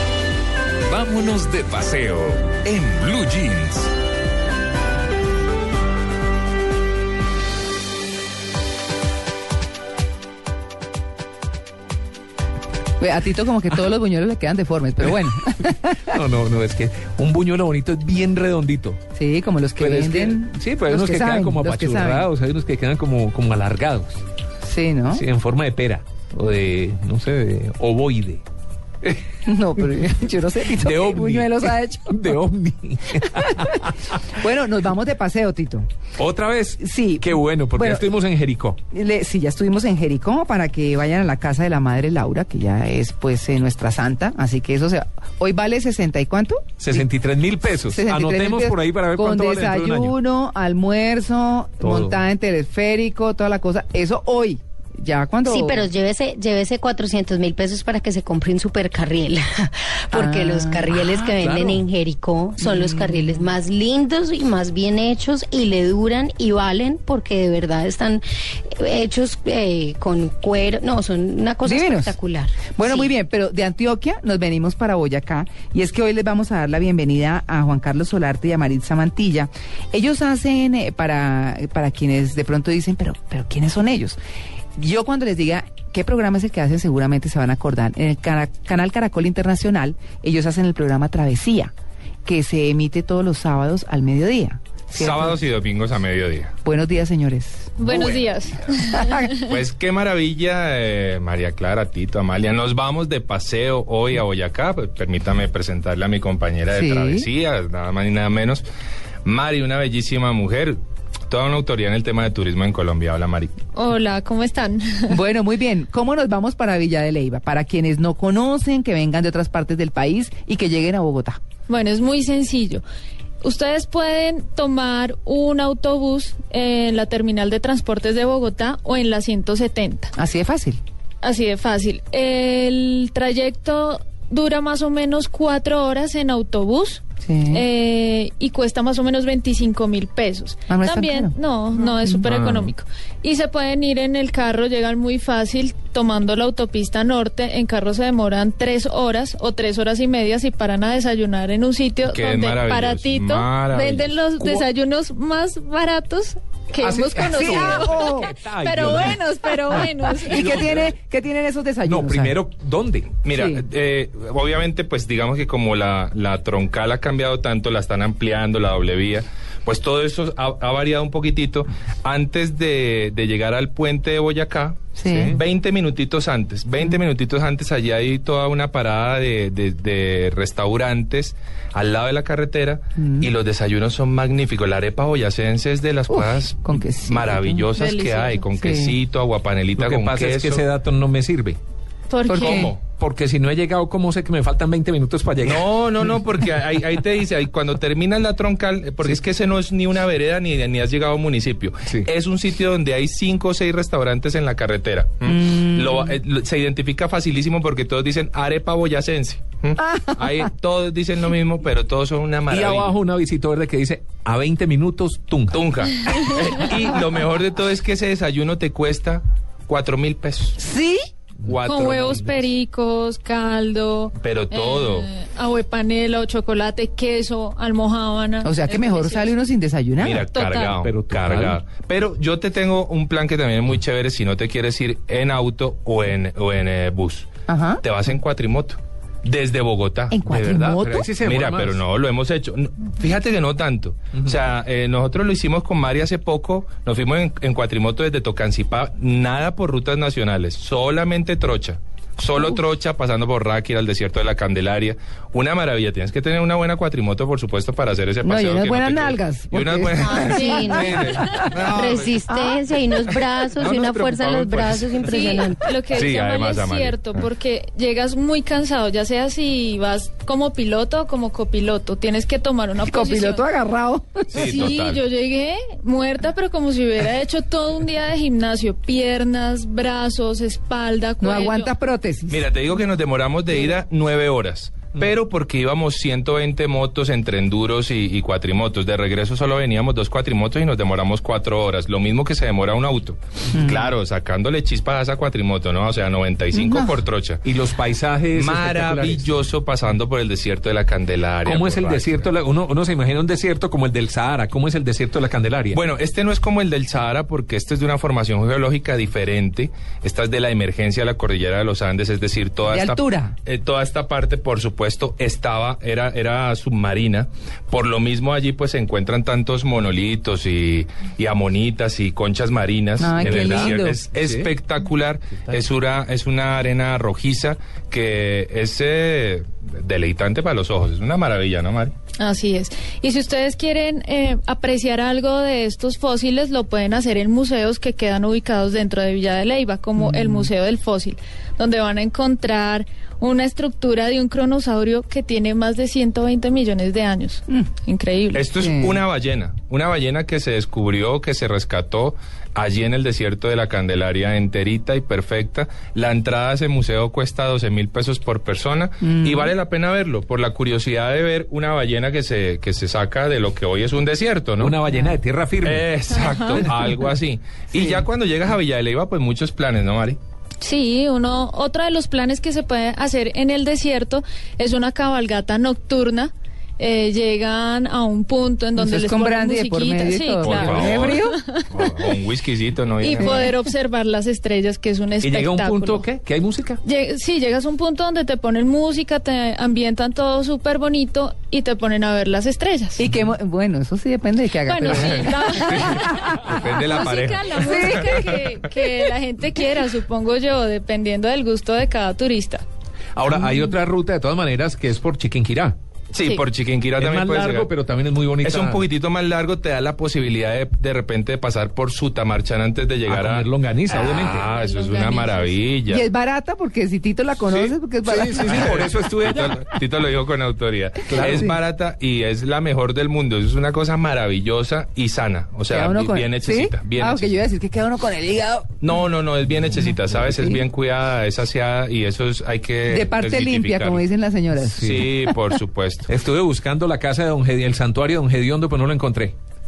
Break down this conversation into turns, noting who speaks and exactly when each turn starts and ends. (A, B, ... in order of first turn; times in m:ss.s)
0:00.9-0:03.9 A
0:13.0-0:16.0 B
0:16.1-0:19.0 C
0:19.2-0:22.3 B
0:19.8-0:24.2 C
0:24.6-0:25.2 B
0:25.1-0:28.4 C
0:29.4-0:32.2 B
0:30.8-0:34.1 C
0:34.3-0:35.9 B
0:36.2-0:38.8 C
0:36.8-0:38.1 B
0:38.9-0:47.1 B
0:46.8-0:50.1 C
0:47.9-0:55.9 B
0:51.8-0:52.2 C
0:55.5-1:13.1 D
1:00.1-1:01.4 B
1:01.4-1:01.8 C
1:02.6-1:03.5 B
1:11.6-1:12.2 B
1:12.8-1:24.2 B
1:24.8-1:31.7 B
1:32.2-1:35.4 B
1:35.0-1:36.5 E
1:36.6-1:38.0 B
1:37.8-1:39.4 F
1:37.9-1:38.3 E
1:38.9-1:39.3 B
1:39.4-1:48.6 E
1:46.7-1:47.3 B
1:49.2-1:53.5 E
1:53.7-1:55.2 F
1:55.1-2:01.4 B
2:01.7-2:02.8 F
2:03.4-2:10.1 F
2:10.2-2:10.8 B
2:11.2-2:40.5 F
2:17.2-2:17.7 B
2:20.7-2:22.4 B
2:22.3-2:22.7 E
2:32.1-2:34.2 E
2:36.8-2:40.9 C
2:37.2-2:38.3 B
2:40.3-2:42.4 B
2:41.8-2:43.2 C
2:43.2-3:10.7 E
2:43.3-2:43.6 B
2:55.0-2:55.4 B
2:55.1-2:55.4 C
3:03.0-3:03.3 B
3:06.1-3:07.7 B
3:07.8-3:08.4 F
3:08.6-3:09.0 B
3:09.8-3:11.6 C
3:12.1-3:12.7 F
3:12.3-3:12.7 B
3:12.3-3:12.8 E
3:13.0-3:15.7 C
3:15.4-3:32.9 E
3:25.3-3:26.2 B
3:29.9-3:30.4 B
3:32.5-3:35.6 C
3:35.5-3:40.6 E
3:40.6-3:41.0 B
3:41.4-3:42.4 E
3:41.6-3:49.3 F
3:44.2-3:45.1 E
3:48.4-3:50.3 B
3:50.0-3:57.3 E
3:50.3-3:50.8 F
3:50.7-3:51.6 C
3:57.5-3:57.8 B
3:57.8-4:00.4 E
4:00.1-4:01.1 B
4:00.3-4:01.8 C
4:01.2-4:22.2 E
4:18.2-4:21.5 B
4:20.0-4:25.6 D
4:20.1-4:21.5 F
4:23.1-4:27.1 E
4:25.0-4:33.4 F
4:32.8-4:34.7 B
4:34.3-4:35.0 E
4:34.3-4:41.7 F
4:41.2-4:42.5 B
4:42.3-4:57.4 E
4:53.5-4:53.9 B
4:56.5-4:57.0 B
4:57.4-4:59.3 C
4:58.4-5:02.3 E
5:01.4-5:05.8 C
5:05.7-5:31.9 E
5:12.7-5:13.4 B
5:23.0-5:24.0 B
5:23.4-5:24.5 C
5:32.2-5:48.4 F
5:40.0-5:40.5 B
5:48.3-6:04.8 E
5:48.6-5:49.0 B
5:59.0-5:59.5 B
6:04.6-6:05.8 C
6:04.9-6:05.2 B
6:05.6-6:10.2 E
6:06.1-6:06.6 F
6:07.7-6:08.0 B
6:10.6-6:21.9 F
6:18.8-6:21.4 B
6:20.4-6:23.4 E
6:23.0-6:26.0 F
6:23.2-6:23.5 B
6:25.2-6:26.8 C
6:26.8-6:33.0 F
6:33.0-6:37.0 B
6:34.6-6:42.6 F
6:34.9-6:38.3 E
6:37.6-6:38.4 B
6:43.2-6:45.8 C
6:43.3-6:43.7 B
6:46.1-6:47.7 E
6:47.0-6:48.8 C
6:48.4-6:56.1 E
6:53.1-6:54.5 C
6:54.1-6:55.6 F
6:55.9-6:58.7 B
6:57.5-6:59.6 C
6:58.4-7:07.4 E
7:01.1-7:01.5 C
7:01.2-7:01.6 B
7:05.7-7:09.0 B
7:08.8-7:14.0 E
7:09.8-7:10.6 B
7:12.9-7:15.1 B
7:14.7-7:15.1 C
7:14.8-7:16.1 E
7:16.1-7:19.4 C